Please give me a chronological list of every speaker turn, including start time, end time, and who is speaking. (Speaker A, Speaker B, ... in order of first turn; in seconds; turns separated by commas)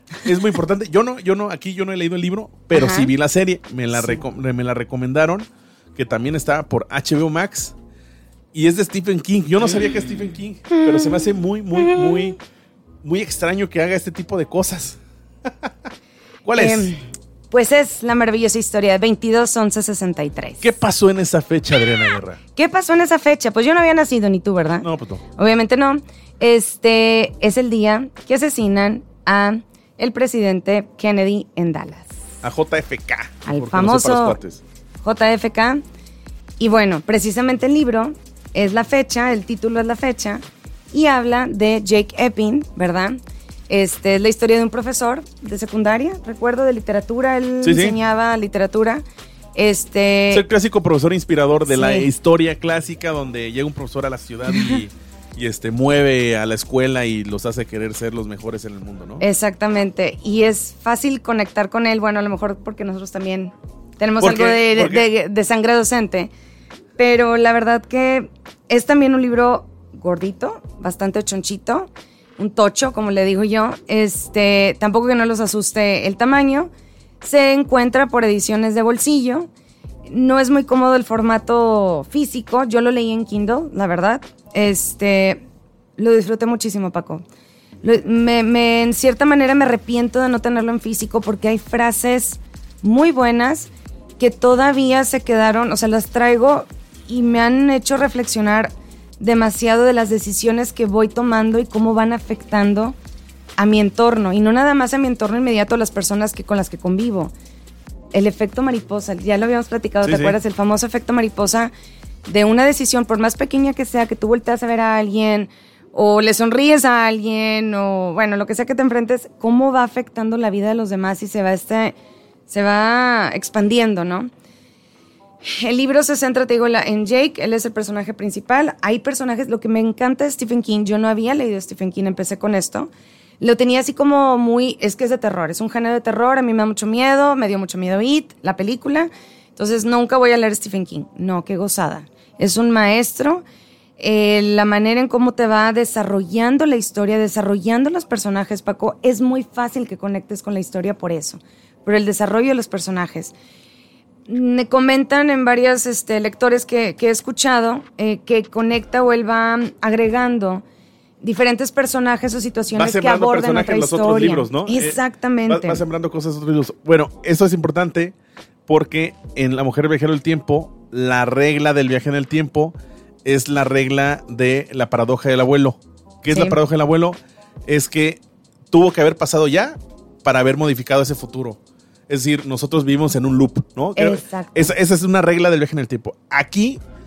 Speaker A: 0.2-7.8, Speaker B: 2.7-3.1, Speaker B: 4.0-4.2, Speaker A: 8.5-12.4, Speaker B: 11.0-12.3, Speaker A: 13.0-15.7, Speaker A: 16.4-17.0, Speaker B: 16.6-17.0, Speaker B: 17.5-20.7, Speaker A: 20.6-22.4, Speaker B: 22.6-24.9, Speaker A: 24.8-25.2, Speaker B: 25.4-32.1, Speaker A: 32.4-34.6, Speaker B: 33.5-34.4, Speaker B: 35.0-35.8, Speaker B: 36.6-43.2, Speaker B: 43.7-49.0, Speaker A: 47.6-48.0, Speaker B: 49.5-50.5, Speaker A: 50.3-59.2, Speaker B: 51.7-52.1, Speaker B: 54.5-54.8, Speaker B: 59.2-66.3, Speaker A: 64.2-65.1, Speaker B: 67.0-76.7, Speaker B: 77.2-79.5, Speaker B: 80.1-85.4, Speaker B: 86.0-87.2, Speaker B: 87.8-103.0, Speaker B: 103.6-107.3, Speaker B: 108.1-111.7, Speaker A: 110.0-110.4, Speaker B: 112.3-122.0, Speaker B: 122.5-124.3, Speaker B: 125.4-143.4, Speaker B: 144.0-153.3, Speaker B: 154.3-160.6, Speaker B: 161.2-165.8, Speaker A: 162.7-168.2, Speaker A: 168.7-186.8, Speaker B: 176.3-176.6, Speaker B: 184.0-184.7